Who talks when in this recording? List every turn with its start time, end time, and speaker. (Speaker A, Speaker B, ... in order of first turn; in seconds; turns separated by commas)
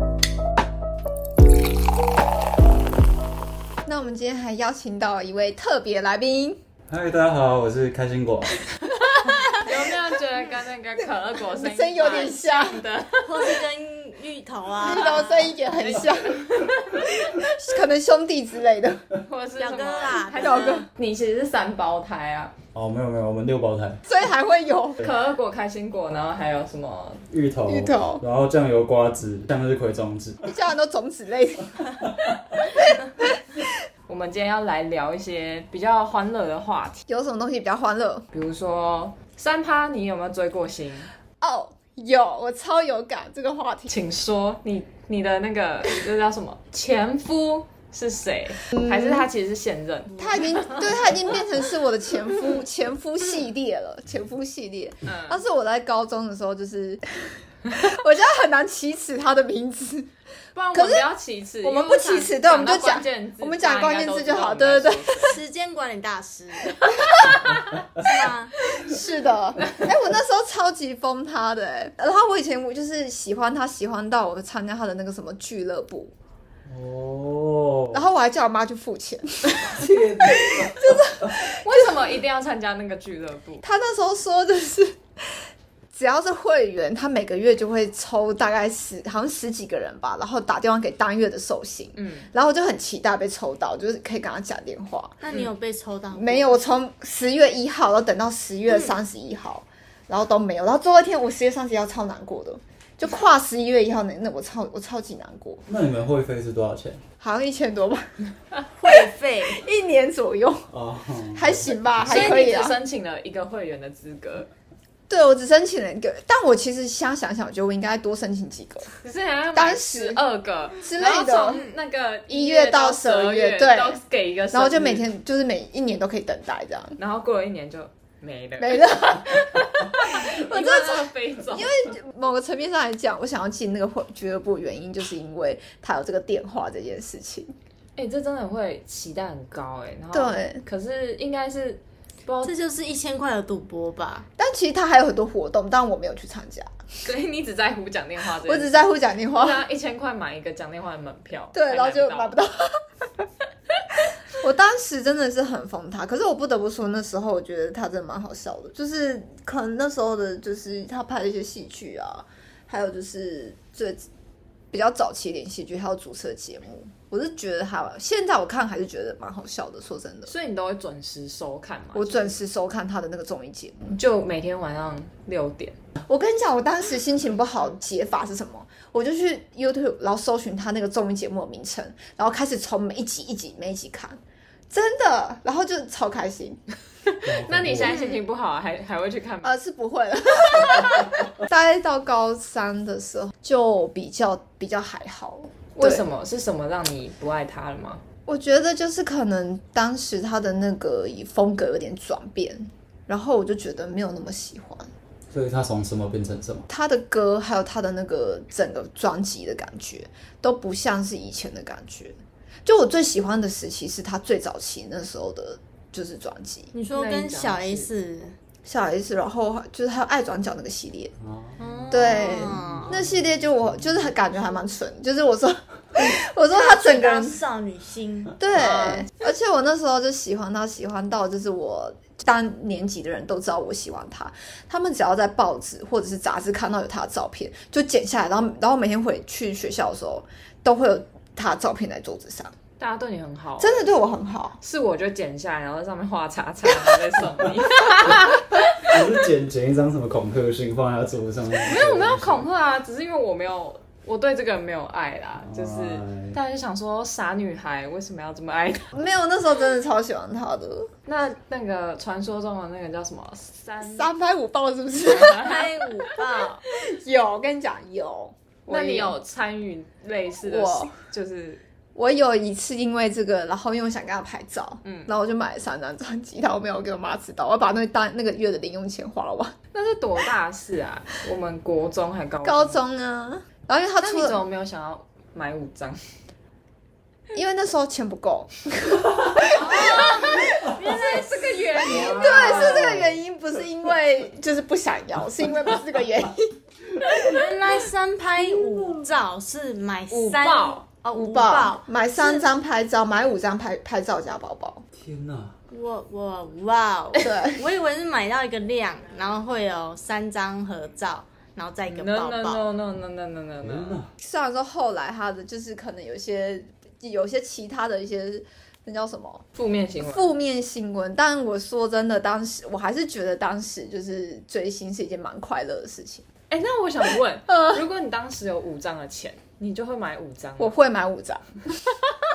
Speaker A: 3.9-6.6, Speaker B: 6.9-8.6, Speaker C: 9.4-13.6, Speaker A: 11.4-12.8, Speaker D: 13.2-15.3, Speaker A: 14.8-16.4, Speaker C: 15.0-16.8, Speaker A: 17.0-19.0, Speaker C: 19.3-22.5, Speaker D: 19.6-20.8, Speaker A: 20.4-20.9, Speaker B: 22.7-24.0, Speaker A: 24.1-25.0, Speaker C: 25.0-27.2, Speaker B: 27.3-30.5, Speaker A: 27.7-28.2, Speaker A: 30.4-31.8, Speaker A: 32.6-33.0, Speaker C: 34.1-37.0, Speaker A: 37.1-38.3, Speaker C: 38.3-41.1, Speaker A: 41.4-43.9, Speaker C: 43.9-50.9, Speaker A: 48.7-49.2, Speaker A: 50.2-60.1, Speaker C: 55.0-55.4, Speaker C: 60.5-65.3, Speaker A: 60.7-61.0, Speaker A: 61.6-65.3, Speaker D: 65.2-67.3, Speaker C: 66.8-67.5, Speaker D: 68.0-68.5, Speaker A: 68.8-76.1, Speaker B: 76.7-78.0, Speaker A: 77.9-81.9, Speaker B: 79.7-81.4, Speaker C: 81.6-83.6, Speaker A: 83.6-95.2, Speaker C: 92.0-92.3, Speaker D: 95.2-96.5, Speaker A: 96.1-105.6, Speaker B: 105.7-107.0, Speaker A: 107.2-108.1, Speaker D: 108.8-109.6, Speaker A: 108.9-110.7, Speaker B: 110.7-112.3, Speaker A: 111.3-112.8, Speaker C: 112.0-114.5, Speaker A: 115.1-118.9, Speaker C: 119.0-125.1, Speaker A: 119.5-120.2, Speaker A: 120.8-121.7, Speaker A: 122.3-124.0, Speaker A: 124.5-127.0, Speaker C: 127.0-131.9, Speaker A: 128.6-137.5, Speaker C: 138.0-142.5, Speaker A: 140.1-140.6, Speaker D: 142.4-144.2, Speaker A: 144.4-146.7, Speaker C: 147.0-152.3, Speaker A: 148.4-149.6, Speaker A: 151.5-152.8, Speaker A: 154.3-164.1, Speaker A: 164.7-170.3, Speaker C: 170.3-172.3, Speaker A: 171.9-174.0, Speaker C: 173.9-175.8, Speaker A: 176.1-184.2, Speaker A: 184.7-186.6, Speaker C: 187.1-189.6, Speaker B: 187.2-187.9, Speaker D: 187.8-188.2, Speaker A: 189.4-196.0, Speaker C: 190.6-191.0, Speaker C: 195.8-198.0, Speaker A: 198.3-204.9, Speaker B: 205.3-206.7, Speaker A: 206.7-216.7, Speaker D: 216.7-218.3, Speaker C: 216.9-217.9, Speaker A: 218.6-221.1, Speaker B: 221.2-221.6, Speaker D: 221.6-222.9, Speaker A: 221.9-227.4, Speaker B: 222.4-224.1, Speaker D: 226.5-229.1, Speaker A: 228.4-242.5, Speaker C: 242.8-243.9, Speaker A: 243.6-244.6, Speaker C: 244.6-248.9, Speaker B: 248.8-252.4, Speaker C: 251.6-258.9, Speaker B: 255.4-256.4, Speaker A: 258.9-260.9, Speaker C: 261.1-264.1, Speaker A: 263.8-265.7, Speaker D: 265.2-266.6, Speaker A: 266.7-269.1, Speaker C: 268.7-271.6, Speaker A: 270.4-270.9, Speaker A: 271.9-279.5, Speaker C: 274.8-275.1, Speaker C: 279.7-282.8, Speaker A: 282.4-284.4, Speaker C: 284.0-286.0, Speaker A: 287.3-290.7, Speaker C: 289.5-293.0, Speaker D: 289.8-291.4, Speaker B: 291.9-293.2, Speaker A: 291.9-296.5, Speaker D: 297.2-302.4, Speaker C: 300.1-300.8, Speaker A: 301.1-304.8, Speaker B: 305.0-305.5, Speaker D: 305.7-312.6, Speaker A: 307.2-307.6, Speaker C: 311.9-314.0, Speaker B: 313.6-314.1, Speaker A: 314.2-319.4, Speaker C: 319.6-320.3, Speaker A: 320.1-326.2, Speaker C: 326.5-330.7, Speaker A: 327.5-327.8, Speaker A: 330.6-331.9